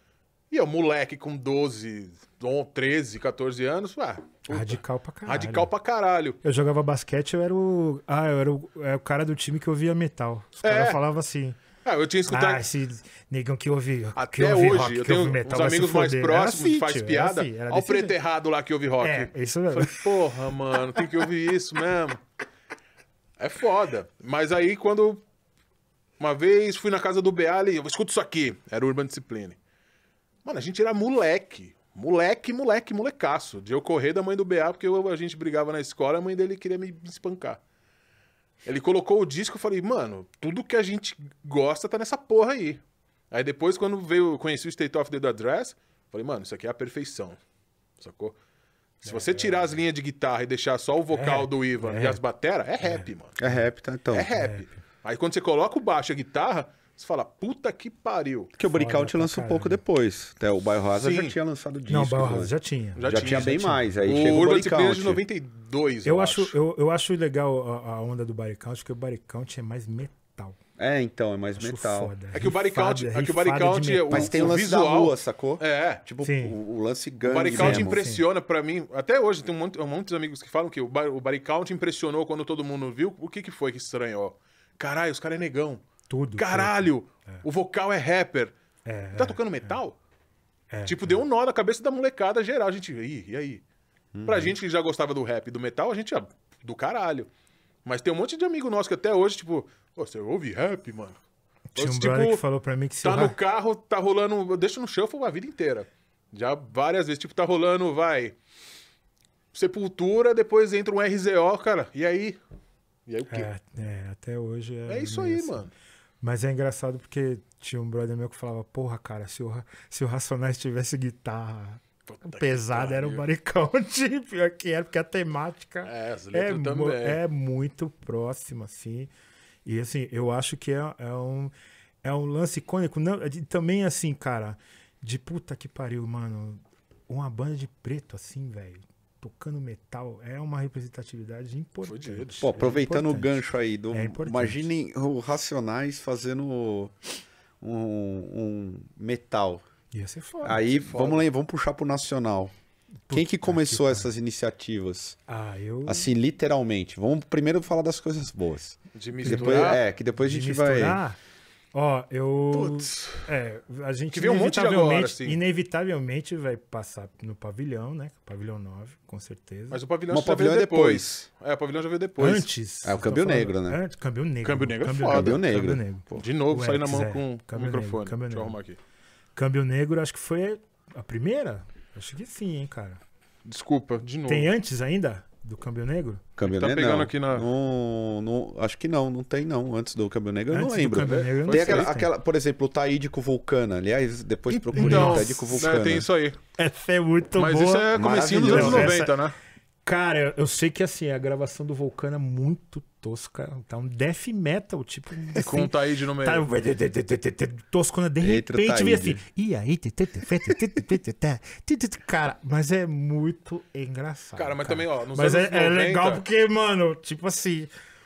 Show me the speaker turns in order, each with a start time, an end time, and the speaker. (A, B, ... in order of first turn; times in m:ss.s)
0:00.5-0:06.4 A
0:04.5-0:05.7 B
0:06.4-0:11.6 B
0:10.6-0:11.0 A
0:11.8-0:12.6 A
0:12.3-0:18.2 B
0:14.2-0:22.2 A
0:19.0-0:20.1 B
0:23.4-0:25.2 A
0:26.2-0:29.6 A
0:30.4-0:37.6 A
0:38.6-0:47.4 A
0:48.0-0:48.4 A
0:49.0-0:49.6 B
0:49.0-0:53.4 A
0:51.1-0:52.2 B
0:52.8-0:53.6 B
0:53.4-0:54.3 C
0:54.1-0:58.5 A
0:54.3-0:54.7 B
0:58.6-1:02.5 C
0:58.7-0:59.8 B
1:01.0-1:01.4 A
1:01.9-1:04.0 B
1:03.0-1:06.5 A
1:03.0-1:05.2 C
1:06.0-1:10.6 B
1:10.8-1:12.1 C
1:11.6-1:14.4 B
1:12.3-1:16.0 A
1:14.1-1:18.0 C
1:16.2-1:16.6 B
1:17.2-1:25.8 A
1:17.5-1:18.2 B
1:26.1-1:27.4 B
1:26.4-1:28.5 A
1:28.8-1:29.8 B
1:29.1-1:30.0 A
1:30.7-1:31.2 B
1:30.8-1:33.6 A
1:34.1-1:34.5 C
1:34.2-1:37.3 A
1:37.8-1:41.2 A
1:41.7-1:43.4 B
1:41.8-1:42.4 A
1:43.0-1:48.3 A
1:49.5-1:52.4 A
1:53.1-1:53.5 A
1:53.3-1:55.6 B
1:54.9-1:55.7 A
1:56.2-2:09.1 B
2:02.1-2:03.2 A
2:05.8-2:07.2 A
2:09.6-2:11.5 B
2:12.0-2:24.7 B
2:21.8-2:22.5 A
2:22.4-2:26.9 C
2:27.6-2:29.6 C
2:29.9-2:30.6 B
2:30.4-2:32.5 C
2:30.6-2:31.2 A
2:33.1-2:34.1 B
2:33.1-2:35.2 C
2:35.3-2:36.1 B
2:35.8-2:41.0 C
2:38.9-2:39.8 A
2:39.2-2:41.2 B
2:41.7-2:49.8 B
2:42.5-2:43.2 A
2:44.1-2:45.4 A
2:49.7-2:52.5 A
2:50.1-2:51.2 C
2:52.2-2:58.6 B
2:52.8-2:53.8 C
2:54.4-2:55.4 A
2:55.1-2:56.2 C
2:56.1-2:58.8 A
2:59.3-3:03.0 B
3:03.4-3:04.5 A
3:04.2-3:06.2 B
3:06.4-3:16.1 C
3:06.4-3:07.5 A
3:10.5-3:12.1 B
3:11.0-3:11.9 A
3:14.5-3:16.4 A
3:14.7-3:15.7 B
3:16.6-3:19.2 B
3:17.4-3:19.3 A
3:17.9-3:19.0 C
3:19.8-3:37.7 B
3:25.3-3:26.5 A
3:28.2-3:29.2 C
3:34.4-3:36.2 A